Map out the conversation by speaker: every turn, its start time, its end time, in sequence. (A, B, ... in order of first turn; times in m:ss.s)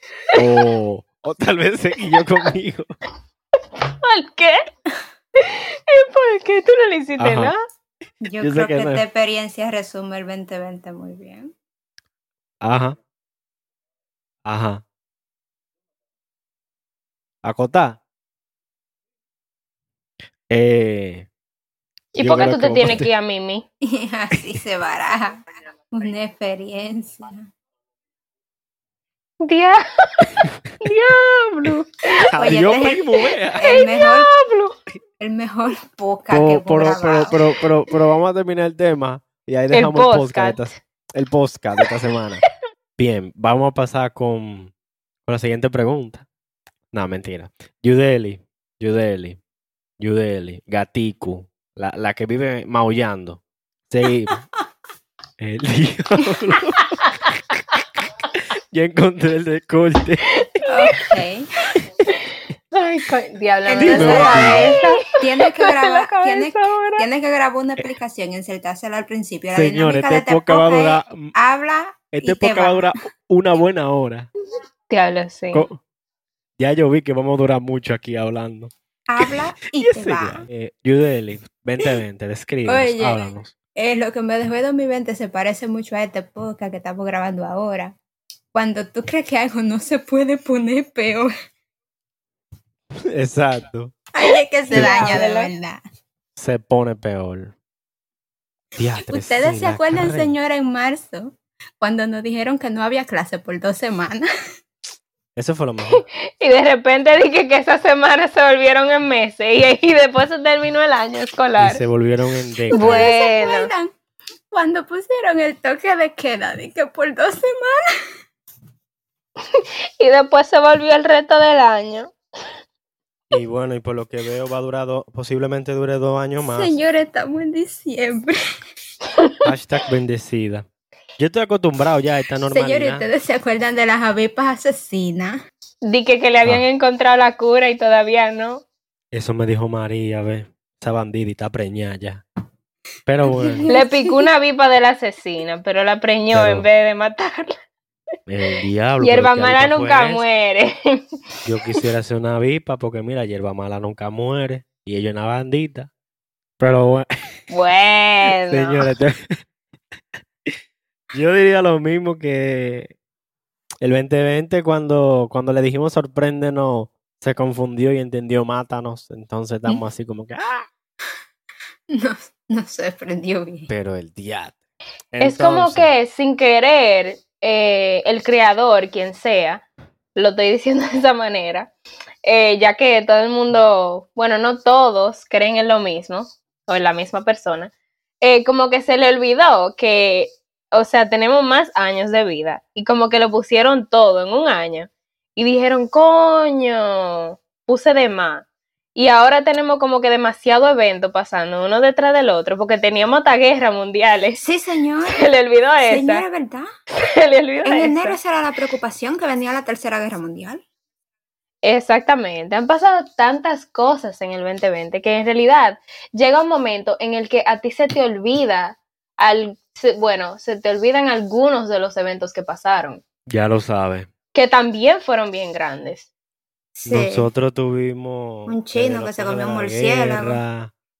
0:00.3-0:02.9 A
0:03.9-0:04.6 B
0:05.4-0:07.6 B
0:07.2-0:07.5 A
0:08.2-0:11.5 C
0:08.4-0:09.0 A
0:12.6-0:13.0 A
0:14.4-0:14.8 A
0:17.4-0:18.0 A
0:20.5-0:21.3 A
0:22.1-0:23.6 B
0:22.2-0:23.1 A
0:23.9-0:27.5 C
0:29.4-0:32.5 B
0:32.3-0:33.7 A
0:32.4-0:33.0 C
0:33.6-0:34.3 C
0:33.6-0:34.7 B
0:35.2-0:37.4 C
0:36.3-0:42.4 A
0:39.7-0:40.7 B
0:43.0-0:44.7 A
0:45.3-0:46.2 A
0:46.9-0:49.4 A
0:50.0-0:54.4 A
0:55.4-0:57.0 A
0:58.4-1:00.4 A
1:00.4-1:00.7 B
1:00.6-1:01.4 C
1:02.7-1:07.0 B
1:03.6-1:12.9 C
1:03.8-1:04.7 A
1:09.5-1:11.3 A
1:12.1-1:14.3 A
1:14.9-1:15.6 B
1:15.5-1:15.8 A
1:16.6-1:23.5 A
1:19.1-1:20.4 C
1:22.6-1:23.2 C
1:23.8-1:28.0 C
1:28.5-1:31.3 C
1:33.1-1:33.9 A
1:34.1-1:35.8 C
1:34.7-1:35.5 B
1:34.7-1:35.2 A
1:36.4-1:37.5 A
1:38.8-1:40.3 A
1:39.0-1:44.2 C
1:45.4-1:46.0 A
1:46.0-1:51.8 B
1:51.6-1:53.1 A
1:52.7-1:53.7 B
1:52.7-1:53.9 C
1:54.5-1:57.8 C
1:59.5-2:02.1 B
2:03.3-2:06.7 A
2:06.4-2:08.3 C
2:09.4-2:10.6 A
2:11.2-2:13.1 A
2:12.5-2:15.4 C
2:15.8-2:18.6 B
2:19.1-2:22.2 A
2:23.1-2:23.7 A
2:23.3-2:24.1 C
2:23.7-2:27.5 B
2:26.3-2:26.6 A
2:28.3-2:30.2 A
2:29.0-2:31.0 B
2:31.4-2:35.9 A
2:36.6-2:37.1 A
2:37.5-2:38.8 B
2:38.5-2:39.2 A
2:41.1-2:42.9 A
2:43.8-2:50.7 A
2:51.9-2:53.7 C
2:53.7-2:54.6 A
2:55.1-2:55.9 A
2:55.2-2:59.6 B
3:00.2-3:01.7 B
3:02.2-3:24.4 B
3:24.4-3:25.2 C
3:25.1-3:26.2 B
3:25.8-3:26.6 C
3:27.0-3:28.2 B
3:27.6-3:30.6 C
3:31.6-3:43.0 B
3:43.3-3:44.1 A
3:44.3-3:46.1 B
3:46.8-3:47.3 C
3:46.8-3:50.7 A
3:48.5-3:50.4 C